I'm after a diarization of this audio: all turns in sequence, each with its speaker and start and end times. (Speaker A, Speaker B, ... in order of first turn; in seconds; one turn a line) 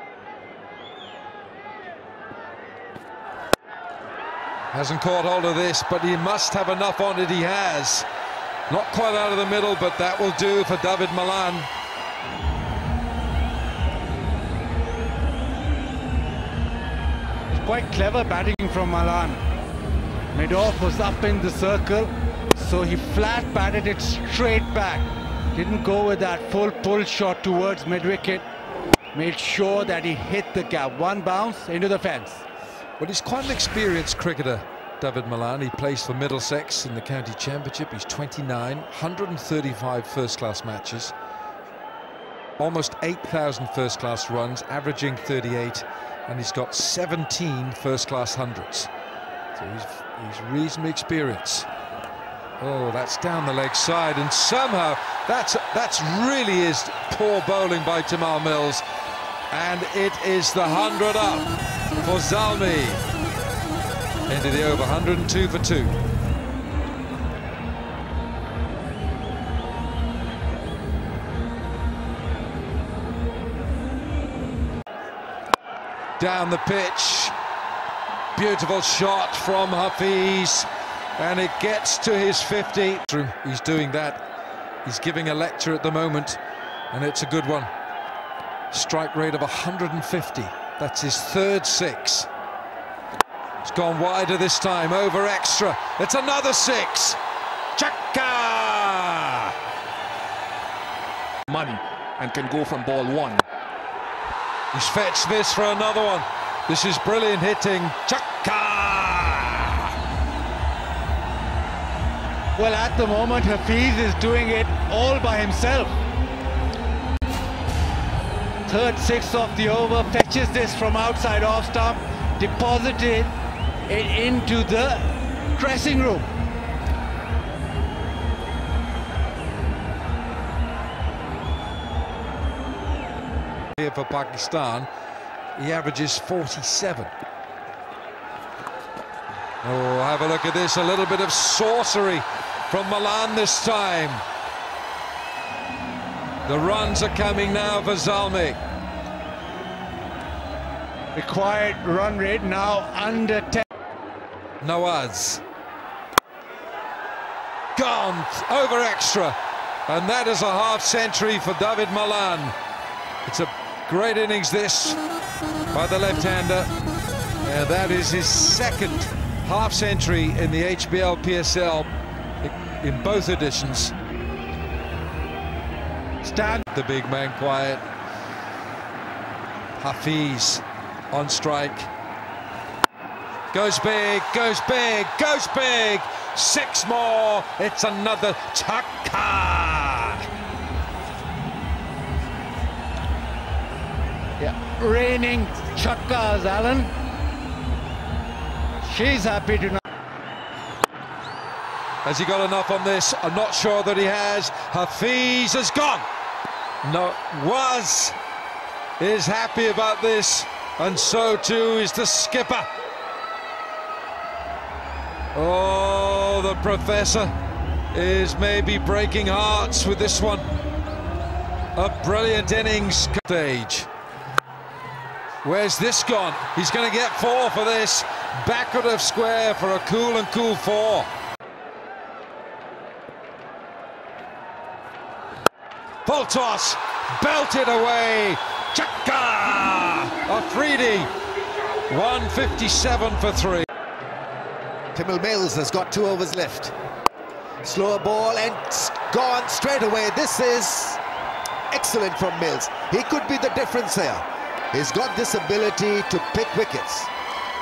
Speaker A: 4.7-8.1
Speaker A: 8.7-11.7
Speaker B: 17.5-19.4
Speaker B: 20.3-28.4
Speaker B: 29.1-32.4
Speaker A: 33.0-41.1
Speaker A: 42.6-48.9
Speaker A: 49.6-51.7
Speaker A: 52.6-58.8
Speaker A: 59.5-61.5
Speaker A: 62.0-63.0
Speaker A: 64.3-66.0
Speaker A: 76.2-77.3
Speaker A: 78.4-84.2
Speaker A: 84.8-86.4
Speaker A: 86.9-87.7
Speaker A: 88.7-92.3
Speaker A: 93.6-97.2
Speaker A: 97.8-99.5
Speaker C: 101.5-103.4
Speaker A: 104.7-109.9
Speaker B: 112.5-115.9
Speaker B: 118.7-123.3
Speaker B: 123.9-126.3
Speaker A: 133.8-134.9
Speaker A: 135.6-137.1
Speaker A: 139.6-144.2
Speaker A: 146.5-148.6
Speaker B: 151.1-153.7
Speaker A: 154.6-155.4
Speaker A: 157.8-159.4
Speaker A: 159.9-162.6
Speaker A: 163.3-165.0
Speaker A: 165.7-166.7
Speaker A: 167.4-171.9
Speaker A: 172.4-173.9
Speaker B: 176.2-176.6
Speaker A: 176.7-177.8
Speaker A: 179.8-181.9
Speaker A: 183.5-190.2
Speaker B: 194.4-196.9
Speaker B: 198.8-199.8
Speaker A: 202.1-206.1
Speaker A: 206.8-208.2
Speaker A: 209.0-212.7
Speaker A: 215.3-217.3
Speaker A: 217.9-220.5
Speaker A: 221.8-223.9
Speaker A: 225.4-231.1
Speaker A: 236.1-241.1
Speaker A: 241.9-243.7
Speaker D: 244.9-246.8
Speaker D: 247.6-251.0
Speaker D: 251.7-257.1